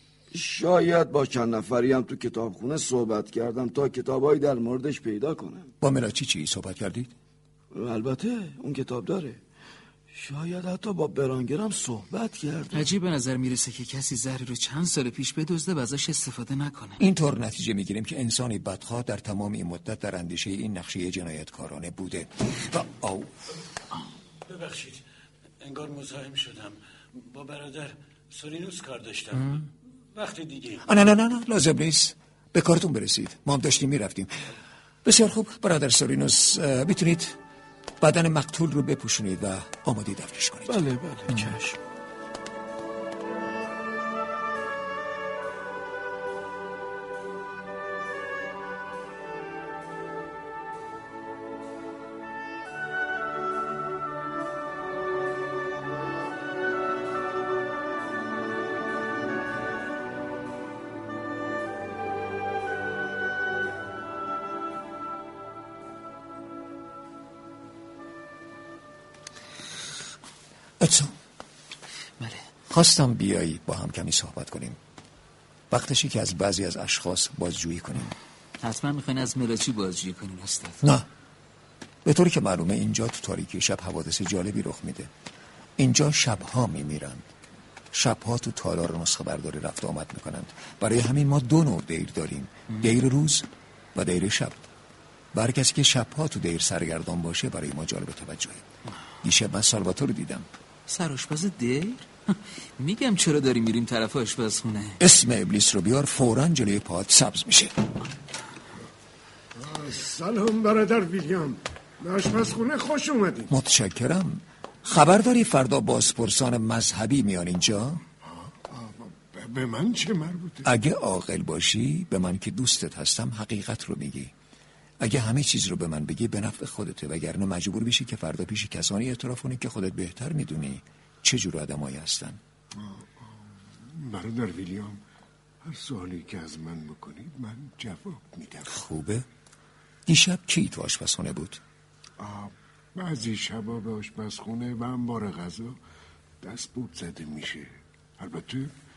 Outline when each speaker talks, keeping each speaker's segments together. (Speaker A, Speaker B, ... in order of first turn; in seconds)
Speaker A: 0.3-5.7, 7.7-9.4, 10.1-12.9, 40.7-41.8
Speaker B: 5.8-7.1, 17.0-23.3, 30.9-34.3, 35.0-37.4, 38.0-40.8, 70.8-71.1, 72.7-74.8, 75.7-78.2, 82.0-85.1, 85.8-87.2, 87.9-94.6, 95.3-98.6, 99.2-100.5, 105.0-107.7, 113.5-118.0, 120.6-124.3, 125.0-132.4, 138.7-139.3, 140.1-141.6
Speaker C: 12.7-17.0, 72.2-72.4, 78.6-80.8, 100.9-105.0
Speaker D: 24.5-25.0, 25.6-30.9
Speaker E: 109.6-113.5, 118.2-120.7, 132.7-135.0, 135.6-138.7, 142.2-145.8, 146.4-148.7